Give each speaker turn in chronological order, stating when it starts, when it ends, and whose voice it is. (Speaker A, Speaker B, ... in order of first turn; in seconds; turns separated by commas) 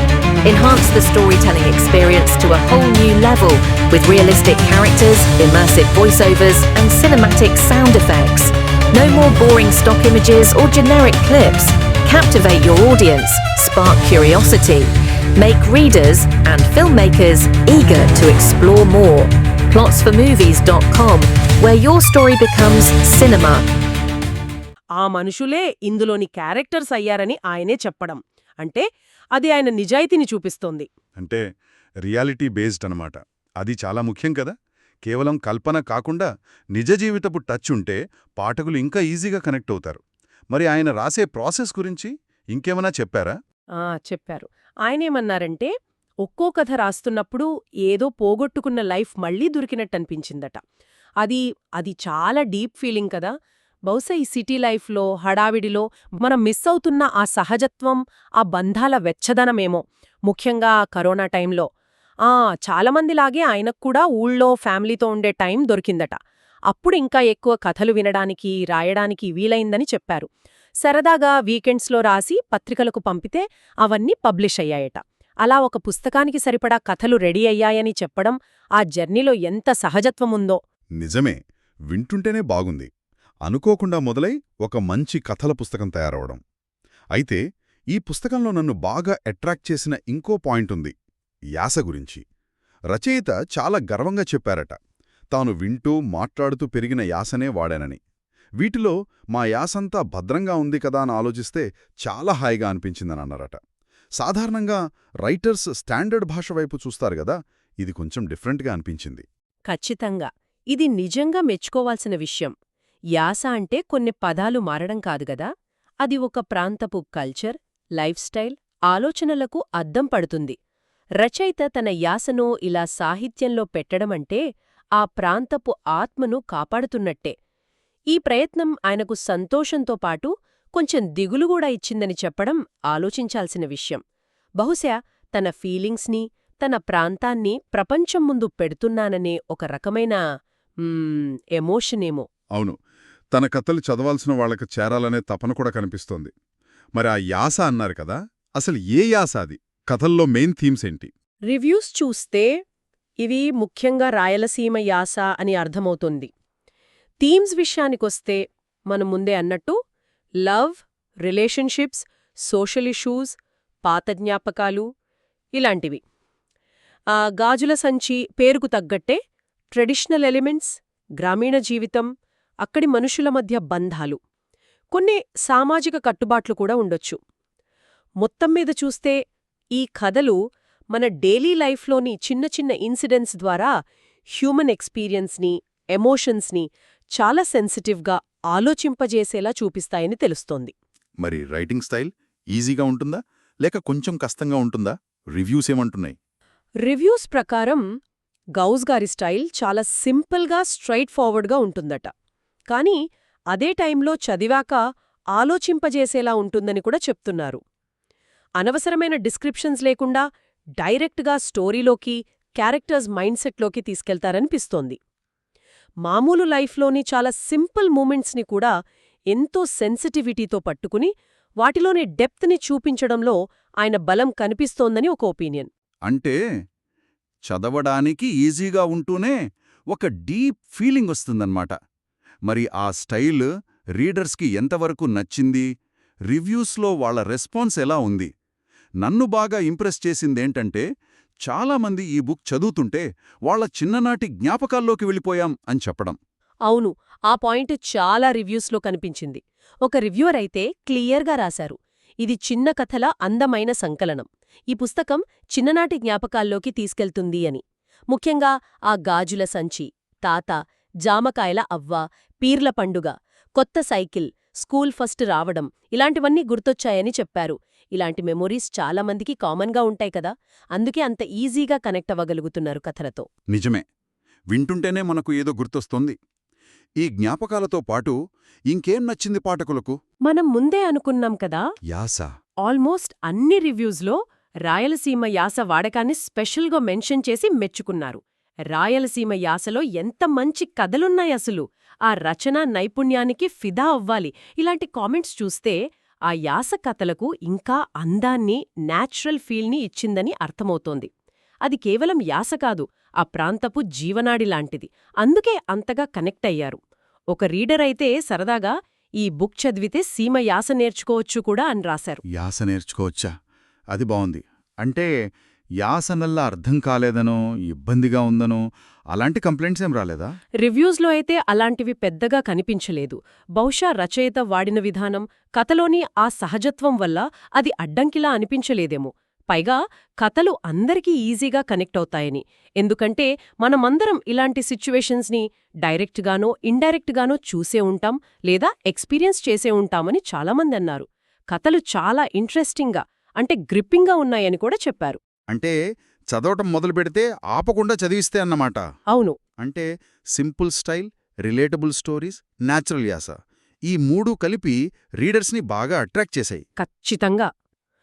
Speaker A: 0.5-23.6, Speaker B: 0.7-2.5, Speaker B: 4.9-6.8, Speaker B: 9.8-11.6, Speaker B: 12.1-12.4, Speaker B: 13.0-13.4, Speaker B: 18.7-19.0, Speaker B: 25.0-30.9, Speaker C: 31.2-31.4, Speaker C: 32.0-34.5, Speaker C: 35.0-43.4, Speaker B: 43.8-45.7, Speaker B: 46.2-50.6, Speaker B: 51.2-53.3, Speaker B: 53.9-61.7, Speaker B: 62.2-66.1, Speaker B: 66.7-70.3, Speaker B: 70.8-80.6, Speaker C: 81.0-81.4, Speaker C: 81.9-82.9, Speaker C: 83.4-86.4, Speaker C: 87.1-87.4, Speaker C: 87.9-90.9, Speaker C: 91.6-92.2, Speaker C: 92.9-94.8, Speaker C: 95.3-98.0, Speaker C: 98.6-103.6, Speaker C: 104.2-109.2, Speaker B: 109.7-112.5, Speaker B: 113.2-115.5, Speaker B: 116.0-120.5, Speaker B: 121.2-124.4, Speaker B: 125.0-127.3, Speaker B: 128.1-134.0, Speaker B: 134.6-140.2, Speaker B: 140.8-142.3, Speaker C: 143.3-146.3, Speaker C: 146.9-151.1, Speaker B: 151.5-152.5, Speaker B: 153.2-156.3, Speaker B: 157.2-159.7, Speaker B: 160.4-164.8, Speaker B: 165.6-166.0, Speaker B: 167.2-169.2, Speaker B: 169.7-172.1, Speaker B: 172.6-174.2, Speaker B: 174.9-177.2, Speaker B: 178.2-179.2, Speaker B: 179.8-180.4, Speaker B: 180.9-183.7, Speaker B: 184.4-190.7, Speaker C: 191.2-196.2, Speaker B: 196.8-197.8, Speaker B: 198.6-202.1, Speaker B: 202.7-203.0, Speaker B: 203.5-204.8, Speaker B: 205.3-207.6, Speaker B: 208.6-210.2, Speaker B: 210.8-215.0, Speaker B: 216.1-218.7, Speaker B: 219.3-221.1, Speaker B: 221.6-225.7, Speaker C: 226.1-226.3, Speaker C: 227.4-229.4, Speaker C: 229.9-231.7, Speaker C: 232.4-235.7, Speaker C: 236.3-238.3, Speaker C: 239.0-240.8, Speaker C: 241.5-246.2, Speaker B: 246.7-273.3, Speaker C: 273.5-273.8, Speaker C: 274.5-276.1, Speaker C: 277.0-278.1, Speaker C: 278.7-280.0, Speaker B: 280.3-281.6, Speaker C: 281.9-282.3, Speaker B: 282.6-288.2, Speaker B: 288.7-295.8, Speaker B: 296.3-301.1, Speaker B: 301.6-306.8, Speaker B: 307.3-312.2, Speaker C: 312.3-313.3, Speaker C: 313.9-315.1, Speaker C: 315.8-320.3, Speaker B: 320.6-345.2, Speaker C: 346.3-348.8, Speaker B: 349.1-349.4, Speaker C: 349.6-356.6, Speaker B: 356.8-357.5